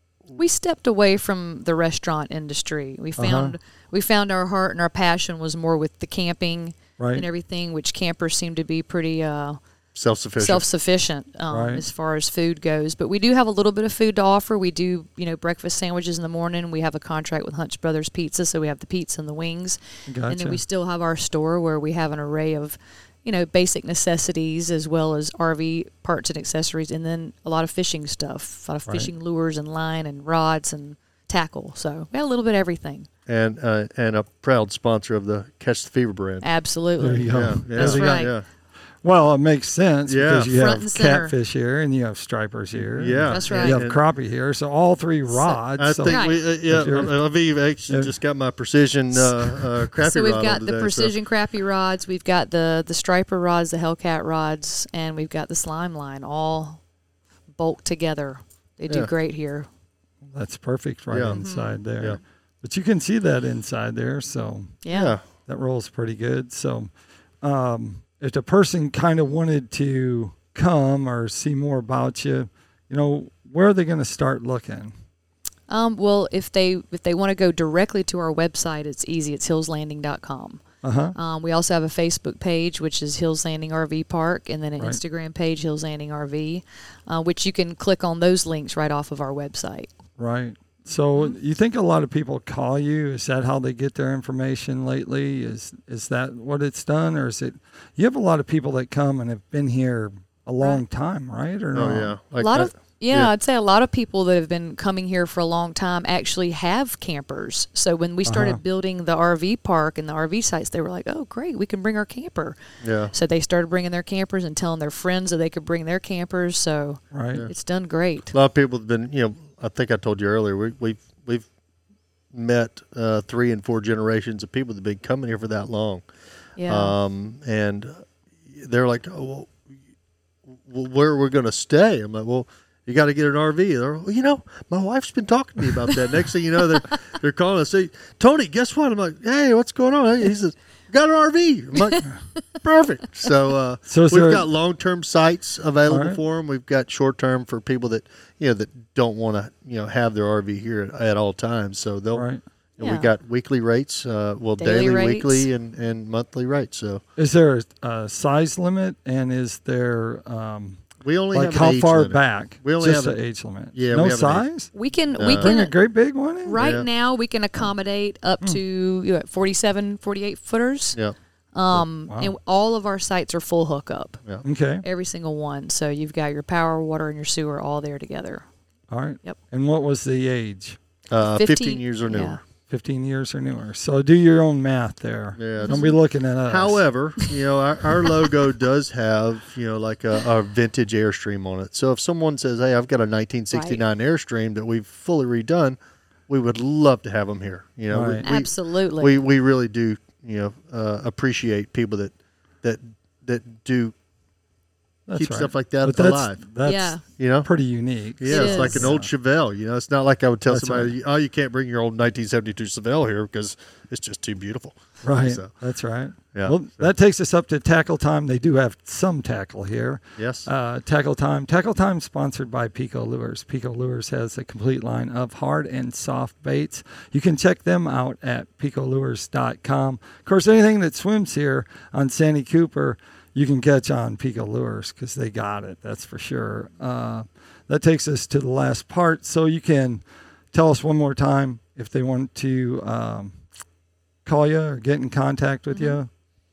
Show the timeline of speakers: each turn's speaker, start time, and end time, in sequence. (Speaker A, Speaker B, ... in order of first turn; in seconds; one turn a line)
Speaker A: 0.4-9.6
Speaker B: 3.2-3.5
Speaker B: 7.0-7.2
Speaker C: 9.9-10.7
Speaker A: 10.4-33.1
Speaker B: 11.5-11.8
Speaker B: 20.1-20.6
Speaker C: 33.3-36.5
Speaker A: 36.4-38.3
Speaker B: 37.0-38.2
Speaker C: 37.2-38.4
Speaker B: 39.0-47.2
Speaker C: 40.0-40.5
Speaker A: 40.5-41.3
Speaker C: 42.9-44.0
Speaker A: 43.3-43.8
Speaker A: 45.3-46.4
Speaker C: 45.8-51.1
Speaker A: 49.1-56.8
Speaker A: 57.6-59.7
Speaker B: 60.3-64.8
Speaker C: 61.1-61.4
Speaker A: 61.3-61.8
Speaker A: 64.8-65.2
Speaker C: 64.9-65.2
Speaker B: 65.5-66.9
Speaker B: 67.4-74.9
Speaker A: 75.7-80.6
Speaker B: 80.8-81.2
Speaker A: 81.1-89.9
Speaker B: 90.2-102.1
Speaker C: 101.7-103.3
Speaker A: 102.4-112.6
Speaker B: 108.2-108.6
Speaker C: 112.8-113.1
Speaker A: 113.1-118.3
Speaker B: 117.1-117.4
Speaker C: 118.3-121.5
Speaker C: 122.3-126.0
Speaker A: 126.6-127.0
Speaker C: 126.7-129.6
Speaker C: 130.6-142.0
Speaker C: 142.6-152.3
Speaker B: 143.9-144.4
Speaker B: 145.9-146.2
Speaker B: 152.1-152.4
Speaker C: 152.8-157.0
Speaker A: 152.8-153.1
Speaker A: 154.6-155.5
Speaker B: 157.2-164.7
Speaker C: 161.0-163.2
Speaker C: 163.7-164.5
Speaker A: 164.7-165.8
Speaker C: 165.2-165.5
Speaker B: 165.3-166.6
Speaker A: 166.4-171.0
Speaker C: 166.6-166.9
Speaker A: 171.5-174.2
Speaker B: 171.7-172.3
Speaker B: 174.4-174.8
Speaker A: 174.8-178.4
Speaker B: 178.9-180.8
Speaker C: 181.1-182.4
Speaker A: 181.2-182.4
Speaker B: 182.7-186.8
Speaker C: 185.3-185.8
Speaker A: 185.6-186.0
Speaker C: 186.4-195.8
Speaker A: 193.5-193.8
Speaker C: 196.3-203.9
Speaker B: 197.9-198.2
Speaker A: 198.2-199.2
Speaker B: 205.1-209.1
Speaker C: 205.1-206.5
Speaker A: 206.6-207.0
Speaker C: 207.1-207.5
Speaker C: 208.2-215.5
Speaker A: 208.3-208.9
Speaker B: 210.4-210.9
Speaker B: 215.0-243.3
Speaker C: 216.3-216.9
Speaker C: 220.2-220.5
Speaker B: 244.2-246.1
Speaker A: 245.7-246.0